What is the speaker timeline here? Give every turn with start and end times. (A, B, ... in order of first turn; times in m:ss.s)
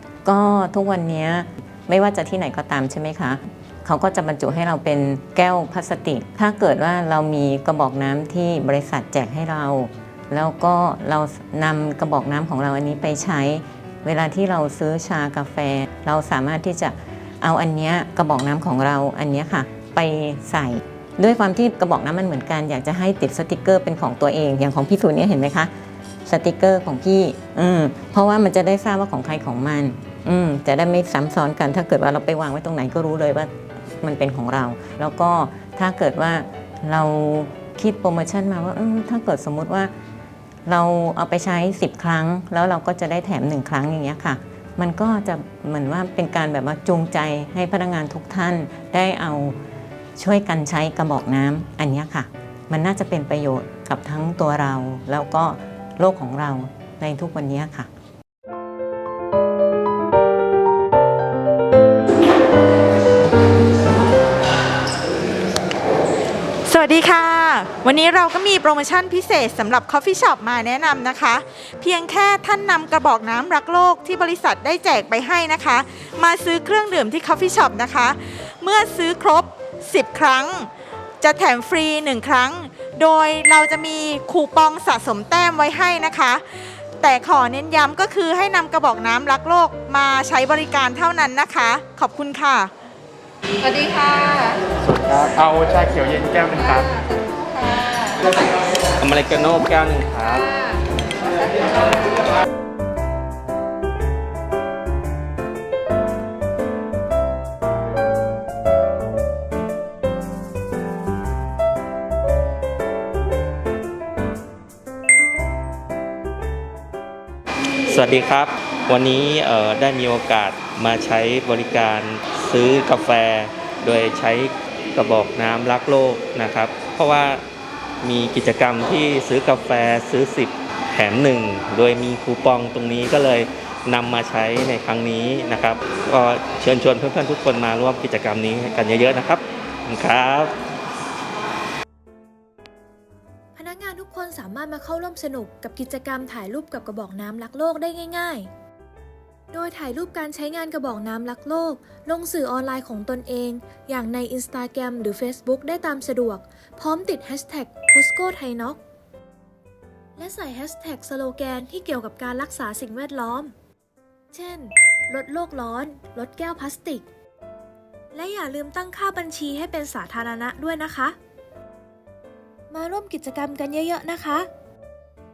0:00.2-0:25.7 A
0:26.2-0:33.5 A
0:34.0-0:39.9 A
0:40.6-0:49.6 A
0:50.2-0:57.9 A
1:06.7-1:20.7 B
1:21.2-1:32.7 B
1:33.6-1:34.6 C
1:34.8-1:36.9 D
1:37.0-1:38.1 C
1:39.0-1:40.5 D
1:57.9-2:07.4 D
2:08.0-2:20.5 D
2:23.6-2:28.5 E
2:29.5-2:38.8 E
2:40.2-2:43.5 E
2:44.3-2:47.0 E
2:48.1-2:51.2 E
2:52.7-2:54.5 E